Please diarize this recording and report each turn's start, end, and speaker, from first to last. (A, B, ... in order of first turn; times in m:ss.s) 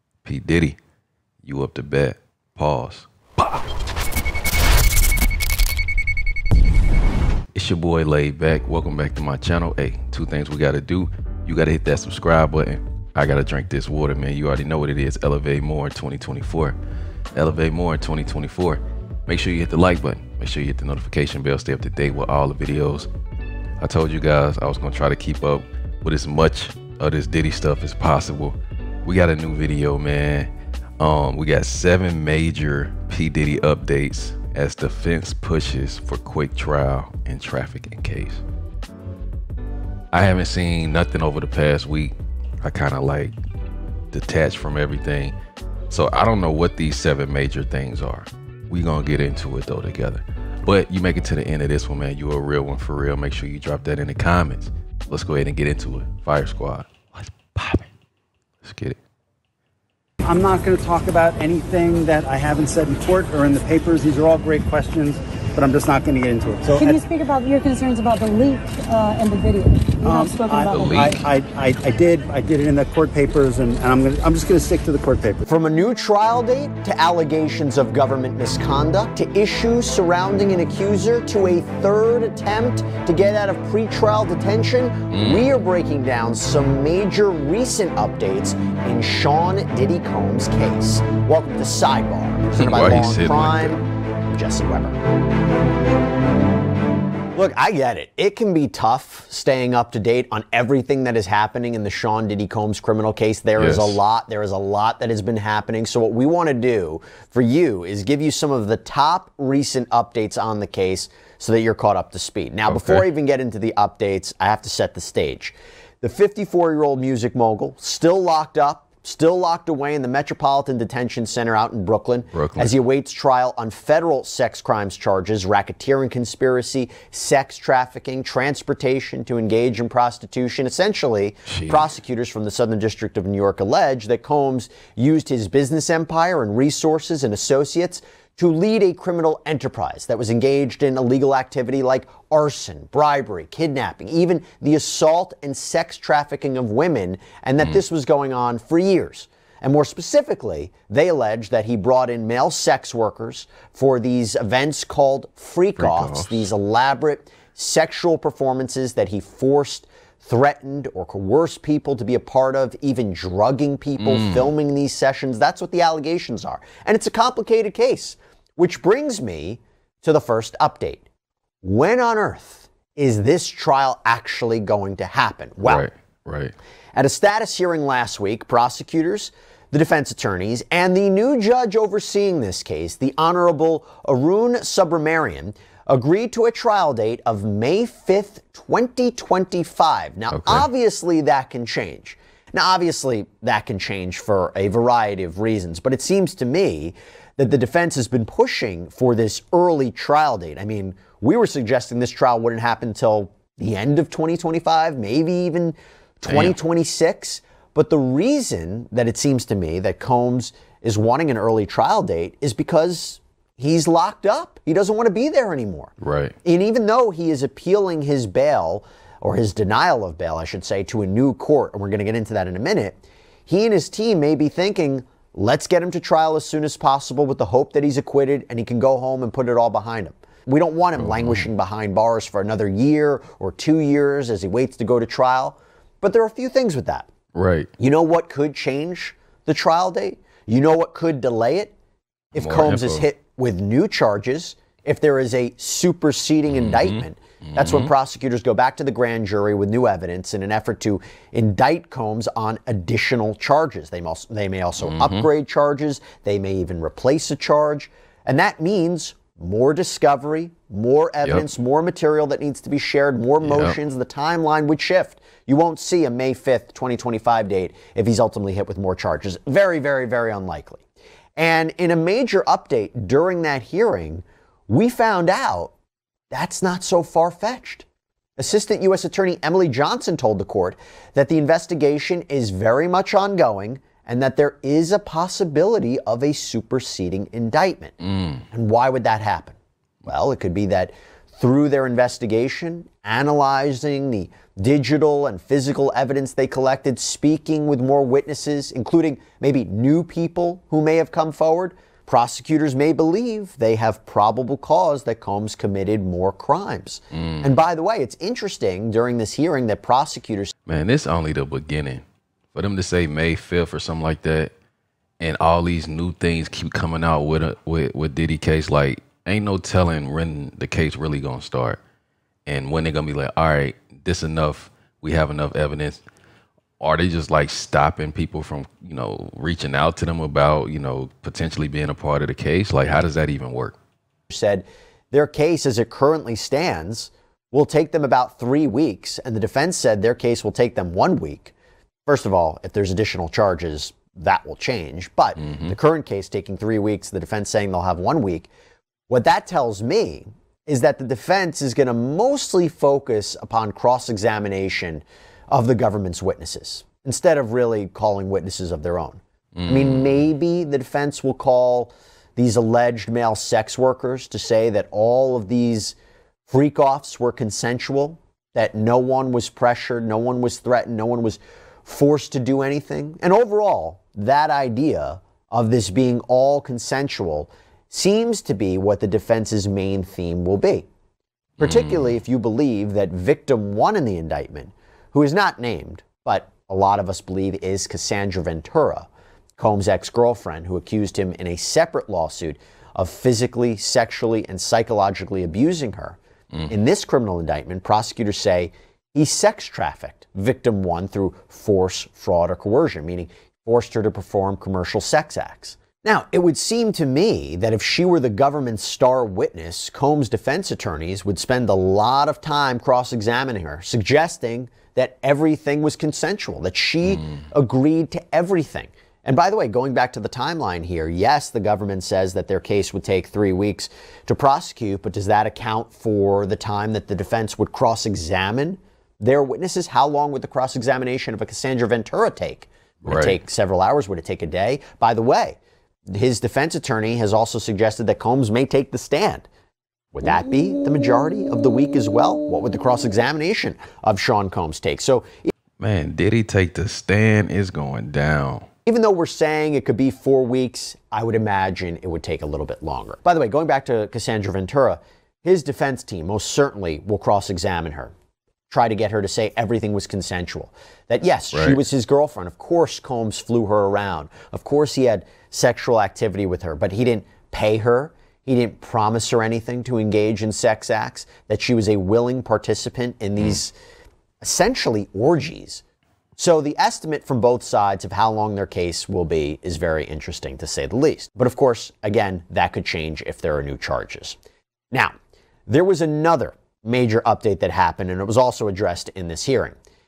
0:00.2-0:00.8 A
0:01.4-0:03.1 A
0:07.5-0:16.8 A
0:17.3-0:23.1 A
0:23.8-0:38.4 A
0:40.1-0:43.4 A
0:44.1-0:45.4 A
0:45.9-0:56.9 A
0:57.6-0:57.8 B
0:58.6-0:59.0 A
1:00.2-1:07.0 B
1:06.8-1:11.1 C
1:10.0-1:15.4 B
1:10.7-1:11.2 A
1:15.4-1:35.0 D
1:25.1-1:25.5 A
1:32.5-1:33.8 A
1:37.3-2:51.0 D
1:43.6-1:44.0 A
1:52.7-1:53.1 A
2:02.3-2:02.8 A
2:11.5-2:11.9 A
2:35.8-2:36.5 A
2:44.0-2:44.5 A
2:51.6-2:55.8 D
2:55.6-2:56.5 A
2:56.9-3:35.9 D
3:10.3-3:10.7 A
3:26.3-3:26.6 A
3:36.0-3:36.4 A
3:36.4-3:57.1 D
3:51.0-3:51.5 A
3:57.4-3:57.7 A
3:57.8-4:01.7 D
4:02.3-4:30.8 D
4:02.4-4:03.0 A
4:06.5-4:07.9 A
4:14.8-4:15.3 A
4:23.4-4:23.8 A
4:31.4-4:35.7 D
4:36.3-4:37.8 D
4:38.4-4:47.9 D
4:48.0-4:48.4 A
4:48.5-5:10.5 D
5:07.1-5:07.5 A
5:10.7-5:12.0 A
5:12.5-5:14.5 A
5:15.2-5:21.8 A
5:22.4-5:26.0 A
5:26.8-5:33.8 A
5:34.3-5:41.5 D
5:42.1-5:48.5 D
5:45.4-5:45.7 A
5:49.1-6:05.9 D
5:59.6-6:00.2 A
6:06.5-6:20.9 D
6:21.6-6:22.1 A
6:21.6-7:15.6 D
6:57.1-6:57.3 A
7:13.0-7:13.4 A
7:16.1-7:19.5 D
7:20.1-7:25.5 D
7:25.8-7:28.7 A
7:28.9-7:38.1 D
7:38.7-7:53.7 D
7:41.5-7:41.8 A
7:54.4-7:55.8 D
7:56.4-8:04.4 D
8:05.7-8:09.8 D